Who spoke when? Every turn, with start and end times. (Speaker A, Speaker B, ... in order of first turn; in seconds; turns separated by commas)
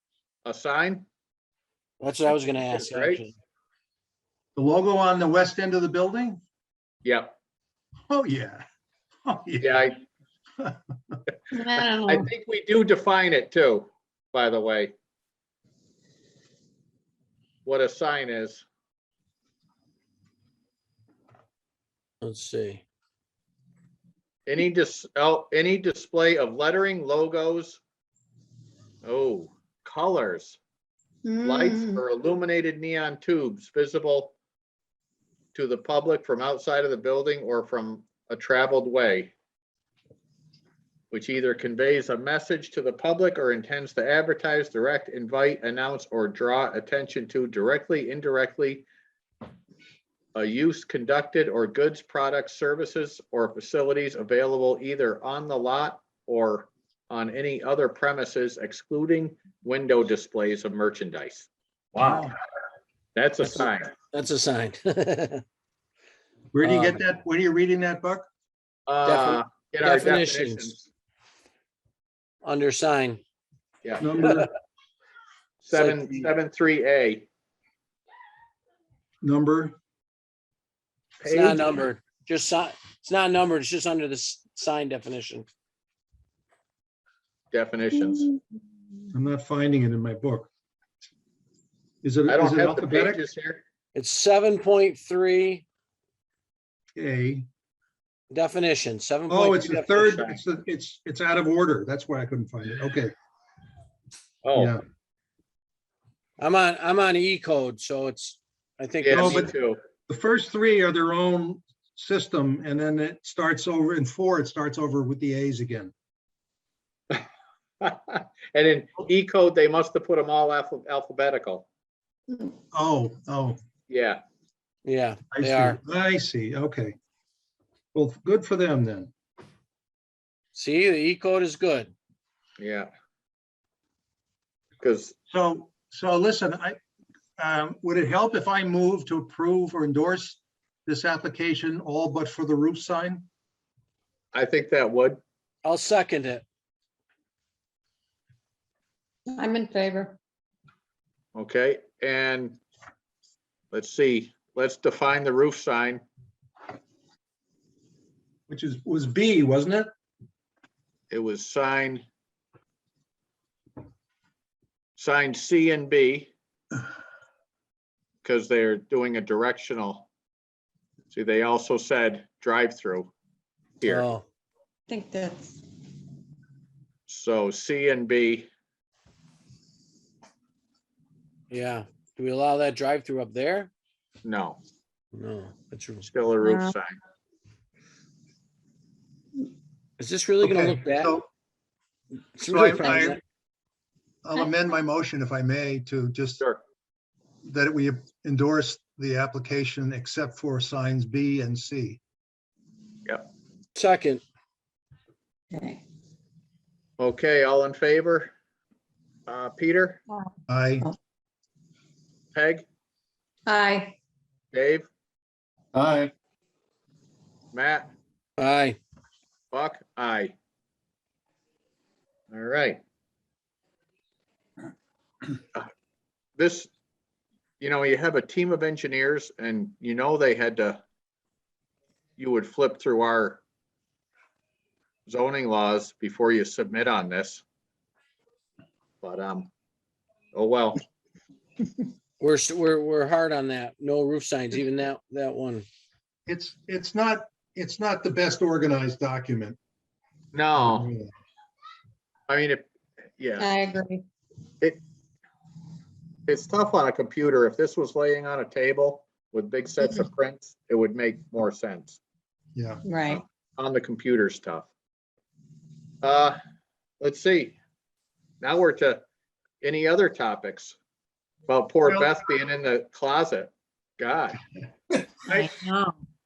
Speaker A: 0.4-1.0, Speaker B: 2.0-3.3, Speaker A: 2.7-3.2, Speaker C: 4.5-6.4, Speaker A: 7.0-7.3, Speaker C: 8.1-8.6, Speaker C: 9.2-9.9, Speaker A: 9.6-9.9, Speaker C: 10.6-11.2, Speaker D: 11.5-12.2, Speaker A: 12.0-14.9, Speaker A: 17.6-18.6, Speaker B: 22.2-22.8, Speaker A: 24.5-27.8, Speaker A: 29.0-30.6, Speaker D: 31.2-32.0, Speaker A: 31.4-34.3, Speaker A: 35.5-39.3, Speaker A: 41.1-48.9, Speaker A: 50.3-62.3, Speaker C: 62.0-62.3, Speaker A: 63.1-63.9, Speaker B: 63.5-65.4, Speaker C: 66.5-68.2, Speaker B: 66.6-67.0, Speaker A: 68.9-70.8, Speaker B: 69.0-70.8, Speaker B: 72.4-73.2, Speaker C: 74.0-74.5, Speaker B: 75.6-76.3, Speaker A: 75.7-77.3, Speaker C: 79.2-79.7, Speaker A: 81.2-81.8, Speaker B: 81.2-85.5, Speaker A: 87.5-88.3, Speaker C: 89.1-90.5, Speaker C: 92.0-93.2, Speaker A: 92.3-93.6, Speaker B: 93.9-95.6, Speaker C: 97.0-97.5, Speaker B: 98.3-100.2, Speaker C: 99.3-103.1, Speaker A: 104.4-104.8, Speaker C: 104.5-104.8, Speaker B: 106.4-109.5, Speaker A: 109.0-109.8, Speaker C: 109.1-109.5, Speaker C: 110.1-115.9, Speaker A: 117.8-121.7, Speaker C: 122.7-123.6, Speaker A: 123.9-124.2, Speaker B: 124.8-125.8, Speaker C: 125.3-127.0, Speaker C: 127.9-129.1, Speaker B: 130.5-131.9, Speaker A: 132.6-132.9, Speaker A: 134.8-135.1, Speaker C: 135.3-136.8, Speaker C: 137.4-143.3, Speaker A: 144.3-145.2, Speaker B: 145.6-146.4, Speaker D: 149.3-150.2, Speaker A: 151.3-152.6, Speaker A: 153.7-156.0, Speaker C: 158.5-159.9, Speaker A: 161.1-162.0, Speaker A: 164.9-166.3, Speaker A: 168.2-170.1, Speaker A: 171.1-173.1, Speaker A: 173.8-174.1, Speaker B: 173.8-174.2, Speaker D: 174.9-175.6, Speaker A: 177.1-178.5, Speaker B: 181.5-183.7, Speaker A: 184.2-184.6, Speaker B: 185.1-186.1, Speaker A: 186.0-187.0, Speaker D: 186.4-186.7, Speaker B: 190.0-191.2, Speaker C: 190.4-191.3, Speaker B: 192.3-193.2, Speaker C: 192.5-193.2, Speaker C: 194.2-196.4, Speaker C: 197.4-202.0, Speaker B: 203.7-204.2, Speaker D: 205.5-205.8, Speaker A: 207.0-208.3, Speaker A: 209.3-210.0, Speaker C: 210.5-210.9, Speaker A: 212.3-212.6, Speaker D: 213.5-214.0, Speaker A: 214.5-214.9, Speaker C: 215.7-216.1, Speaker A: 217.5-217.9, Speaker B: 218.4-218.8, Speaker A: 219.5-220.3, Speaker A: 222.3-222.8, Speaker A: 226.4-226.7, Speaker A: 227.6-230.8, Speaker A: 232.2-233.4, Speaker A: 235.1-237.4, Speaker A: 239.0-239.5, Speaker A: 240.3-240.8, Speaker B: 242.2-245.7, Speaker C: 246.3-249.6, Speaker A: 250.3-250.9, Speaker C: 250.6-251.1, Speaker A: 252.3-252.7, Speaker A: 253.2-253.5, Speaker D: 253.4-254.0, Speaker A: 256.3-262.0, Speaker C: 262.6-262.8, Speaker D: 262.9-263.2, Speaker A: 263.1-264.7, Speaker A: 266.0-266.4, Speaker A: 267.0-267.6, Speaker A: 268.4-269.0, Speaker A: 269.6-270.8, Speaker A: 271.5-274.4, Speaker C: 275.2-275.5, Speaker D: 275.3-276.0